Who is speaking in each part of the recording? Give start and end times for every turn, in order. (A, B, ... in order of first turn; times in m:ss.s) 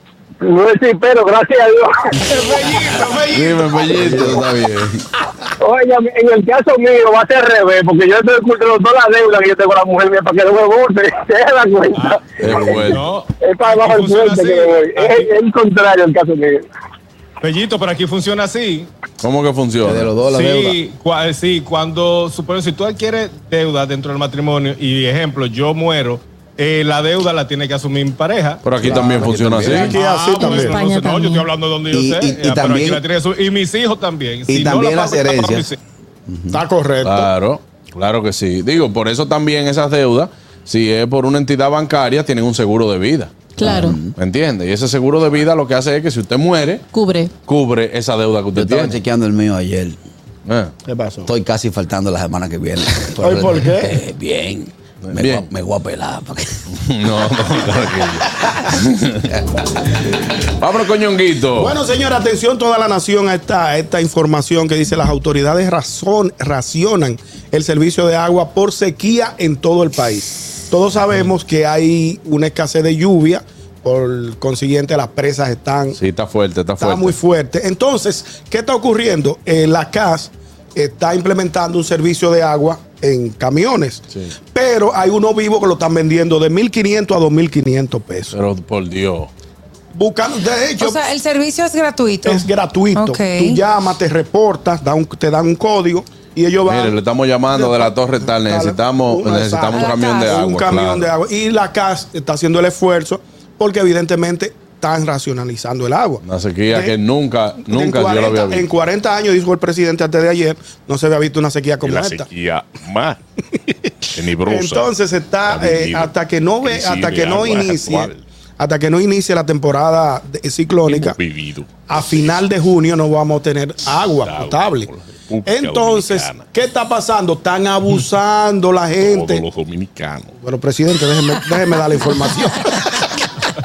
0:00.4-0:01.8 A
0:02.2-0:03.4 B
0:02.4-0:03.6 C
0:03.3-0:04.9 D
0:03.9-0:05.0 E
0:05.6-0:12.2 A
0:11.9-0:15.3 B
0:12.4-0:13.0 D
0:12.4-0:12.9 E
0:13.4-0:16.6 A
0:17.4-0:18.9 B
0:19.2-0:20.1 D
0:19.8-0:20.8 E
0:20.2-0:28.6 B
0:28.6-0:29.9 D
0:28.8-0:29.9 E
0:29.6-0:30.8 C
0:29.7-0:35.8 B
0:30.4-0:31.5 F
0:31.9-0:33.0 E
0:34.5-0:35.7 E
0:36.3-0:36.6 E
0:36.5-0:37.3 C
0:37.0-0:43.3 D
0:43.6-0:44.0 F
0:43.6-0:44.1 E
0:44.1-0:46.8 D
0:46.9-0:47.3 F
0:47.4-0:49.0 D
0:48.5-0:50.0 E
0:50.4-0:50.7 D
0:50.9-0:51.3 C
0:51.2-0:56.6 E
0:53.2-0:54.0 C
0:55.1-0:55.5 D
0:56.7-0:59.3 D
1:00.6-1:01.8 D
1:01.5-1:16.0 C
1:16.0-1:17.2 D
1:16.8-1:28.3 C
1:28.3-1:29.3 D
1:29.9-1:31.0 C
1:30.8-1:33.6 G
1:32.2-1:36.9 C
1:36.6-1:41.1 D
1:37.5-1:46.9 C
1:39.7-1:40.4 G
1:46.2-1:48.7 D
1:47.7-1:52.3 C
1:51.8-1:53.2 D
1:54.1-1:54.9 D
1:54.4-2:01.2 C
1:55.4-1:56.1 D
1:56.6-1:58.2 D
2:00.8-2:02.4 D
2:01.9-2:04.9 C
2:04.2-2:06.4 D
2:05.4-2:09.4 C
2:09.0-2:10.3 D
2:10.4-2:13.0 C